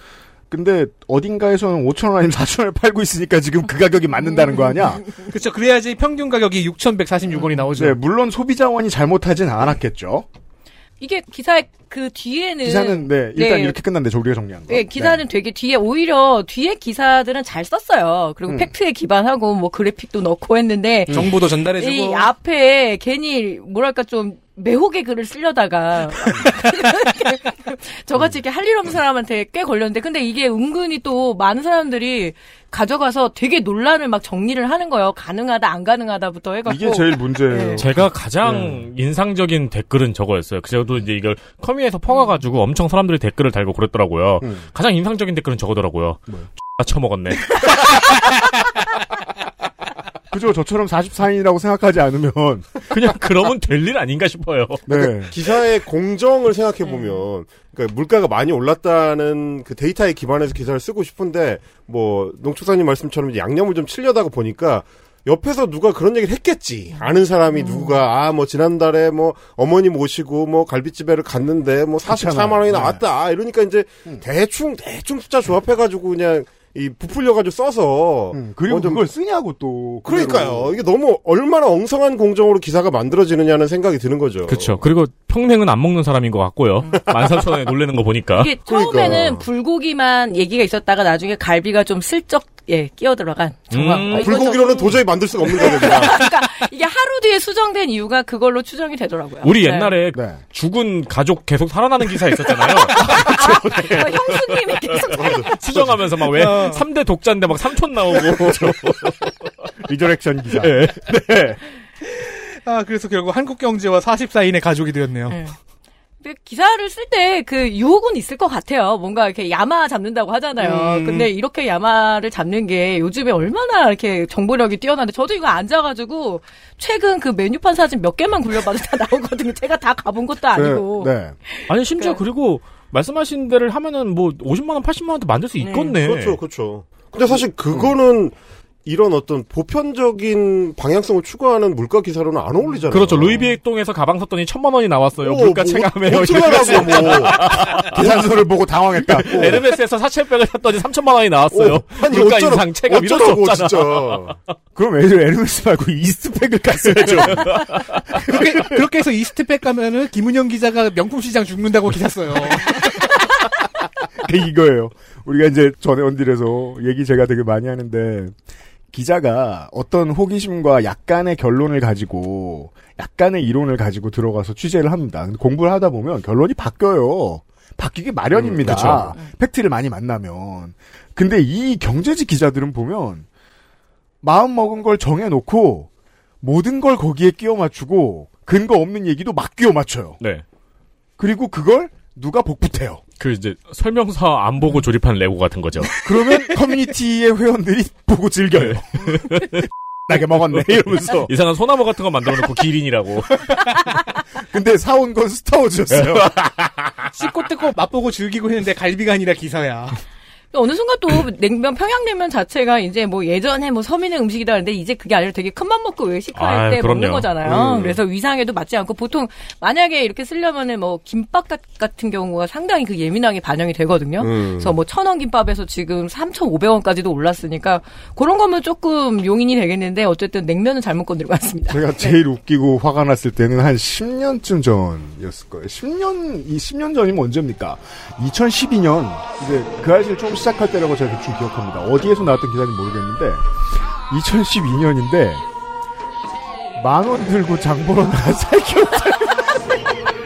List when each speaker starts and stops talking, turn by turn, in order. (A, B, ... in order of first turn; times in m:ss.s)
0:00.5-0:05.0 A
0:05.3-0:08.0 B
0:07.7-0:10.2 A
0:11.0-0:13.8 C
0:12.6-0:15.2 A
0:14.7-0:37.8 C
0:21.1-0:22.3 B
0:36.6-0:38.8 A
0:37.8-0:46.2 D
0:46.8-0:47.6 D
0:50.3-0:52.7 A
0:52.9-0:55.1 D
0:54.9-0:55.3 A
0:55.3-1:19.0 E
1:07.6-1:08.0 C
1:12.1-1:13.0 A
1:18.3-1:20.8 A
1:20.0-1:24.8 E
1:24.5-1:28.6 D
1:28.3-1:40.0 C
1:28.6-1:29.4 E
1:33.7-1:34.5 D
1:34.1-1:36.2 E
1:39.4-1:43.2 D
1:40.1-1:40.4 A
1:43.1-1:44.2 A
1:43.1-1:45.5 C
1:45.1-1:45.9 E
1:45.5-1:49.2 D
1:46.3-1:46.8 B
1:49.8-1:51.6 A
1:50.6-1:51.0 D
1:52.1-1:55.4 B
1:55.3-1:55.5 C
1:56.2-2:12.2 C
2:00.6-2:01.3 B
2:10.5-2:11.4 A
2:11.7-2:16.4 D
2:15.6-2:16.0 C
2:16.0-2:23.5 E
2:22.9-2:28.0 D
2:25.2-2:28.2 E
2:27.7-2:29.6 A
2:29.1-2:34.2 D
2:29.3-2:29.6 E
2:31.5-2:34.3 E
2:34.7-2:37.7 A
2:36.9-2:38.0 D
2:38.2-2:42.8 B
2:38.3-2:38.8 A
2:44.2-2:48.3 A
2:48.9-3:03.2 A
2:58.6-2:59.1 D
2:59.0-2:59.3 C
3:04.2-3:05.9 A
3:06.4-3:10.2 A
3:11.2-3:13.0 A
3:13.2-3:16.0 D
3:16.0-3:19.5 A
3:18.7-3:19.6 D
3:20.1-3:21.3 A
3:20.5-3:23.6 D
3:24.4-3:26.9 A
3:25.9-3:26.4 D
3:27.1-3:30.0 B
3:30.5-3:52.2 C
3:36.3-3:37.4 D
3:37.4-3:38.0 E
3:44.2-3:44.8 E
3:51.7-4:03.5 A
4:04.1-4:05.4 A
4:06.8-4:09.6 A